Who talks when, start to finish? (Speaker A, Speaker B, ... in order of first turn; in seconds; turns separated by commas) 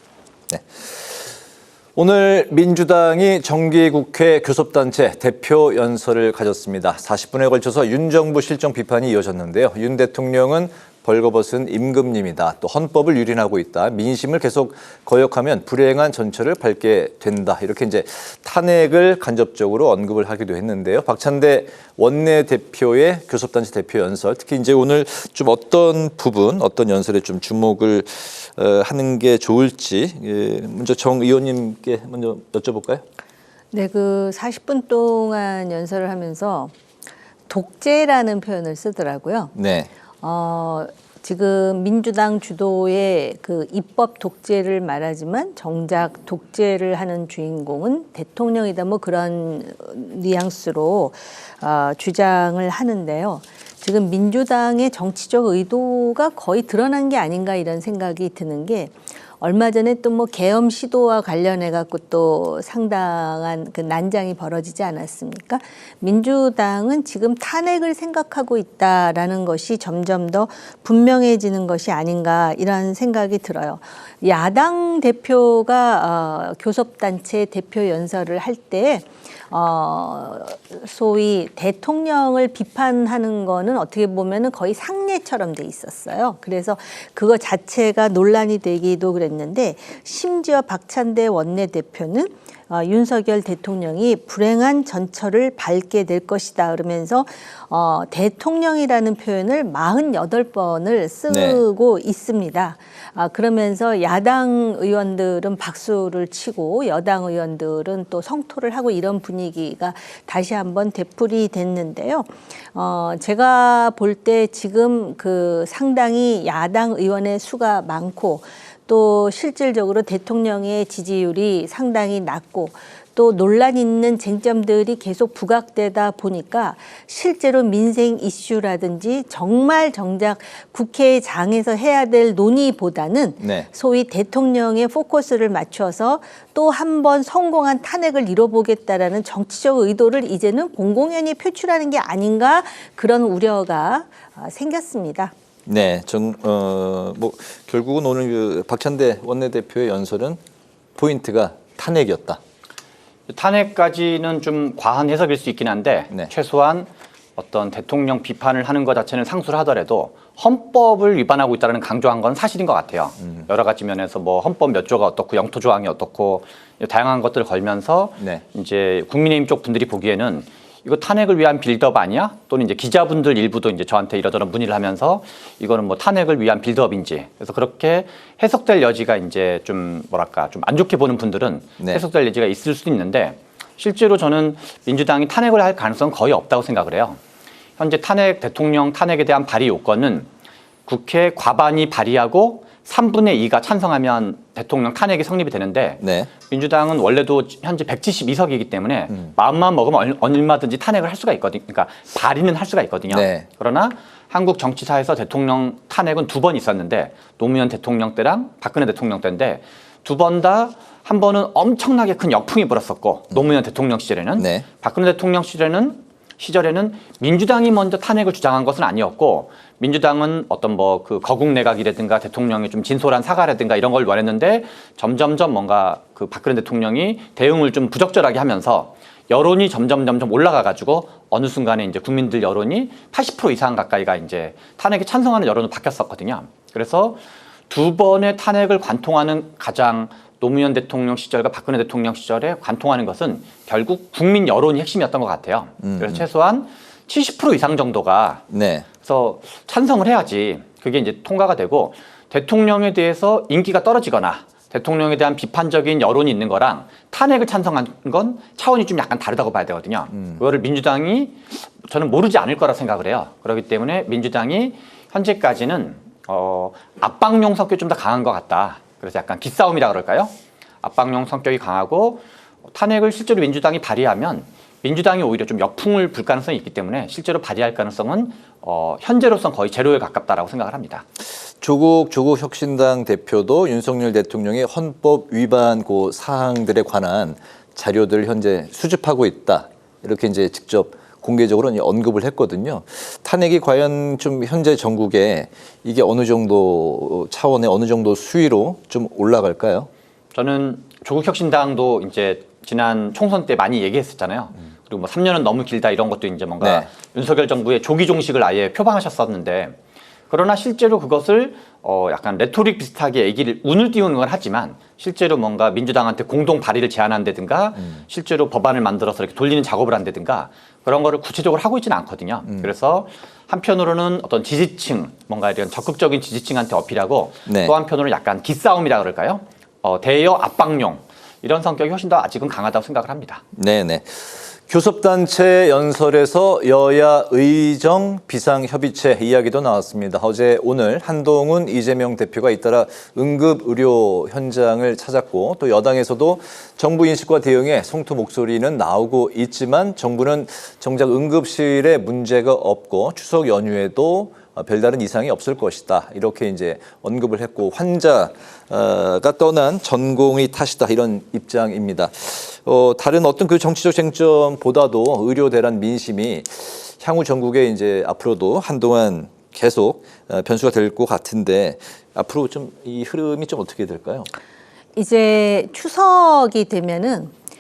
Speaker A: 0.5-1.3, Speaker A: 2.0-33.0, Speaker B: 33.7-36.7, Speaker B: 37.5-39.5, Speaker A: 39.5-39.9, Speaker B: 40.2-145.3, Speaker A: 101.3-101.6, Speaker A: 133.4-133.7, Speaker A: 145.7-150.4, Speaker A: 151.0-152.4, Speaker C: 153.3-187.2, Speaker A: 181.8-182.0, Speaker C: 187.8-190.3, Speaker C: 190.9-248.4, Speaker A: 196.0-196.3, Speaker A: 203.1-203.5, Speaker A: 214.4-214.7, Speaker A: 245.8-246.2, Speaker A: 248.5-248.9, Speaker C: 249.0-281.0, Speaker A: 281.6-299.9, Speaker C: 300.3-309.8, Speaker A: 306.6-306.9, Speaker C: 310.3-333.4, Speaker A: 327.5-327.7, Speaker A: 333.5-374.3, Speaker B: 375.0-377.3